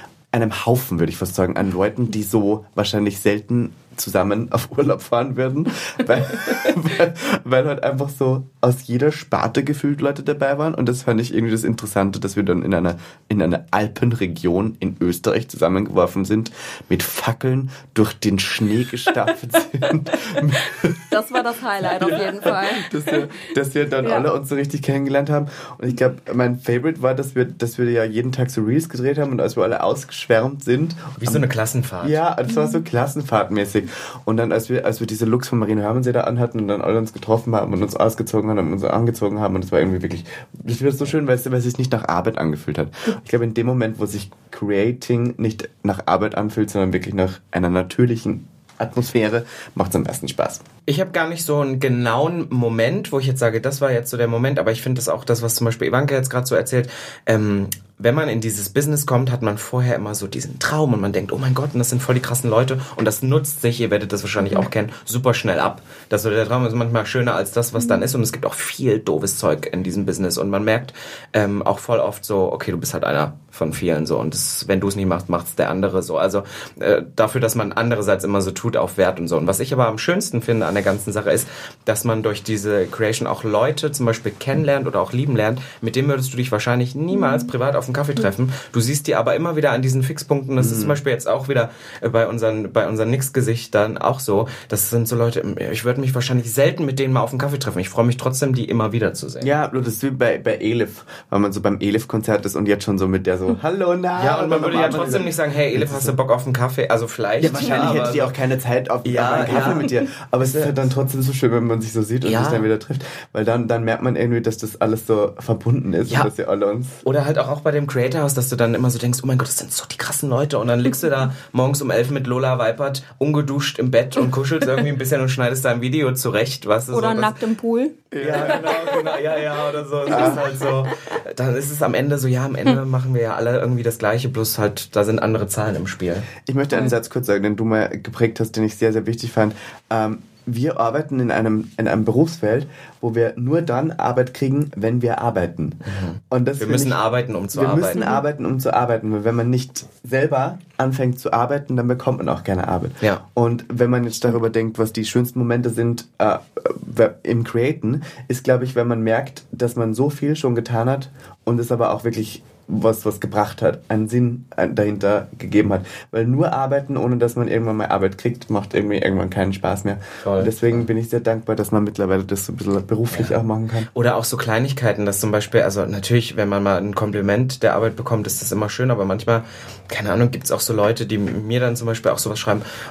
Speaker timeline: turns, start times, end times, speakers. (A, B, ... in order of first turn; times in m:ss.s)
0:00.3-0:21.2 A
0:21.1-0:22.9 B
0:21.8-0:31.4 A
0:31.2-0:32.2 C
0:32.0-0:50.6 A
0:50.9-1:39.5 C
1:07.8-1:08.1 B
1:27.2-1:27.5 B
1:30.6-1:31.0 A
1:39.4-1:46.2 A
1:44.2-1:48.3 C
1:47.4-1:57.0 A
1:49.0-1:50.8 C
1:52.2-1:52.7 C
1:57.0-2:07.4 C
2:06.9-2:08.0 B
2:08.1-2:08.9 A
2:08.2-2:16.3 C
2:10.1-2:10.4 A
2:16.4-2:53.9 A
2:25.8-2:28.1 C
2:50.2-2:50.9 C
2:53.1-2:53.4 C
2:53.9-3:02.6 C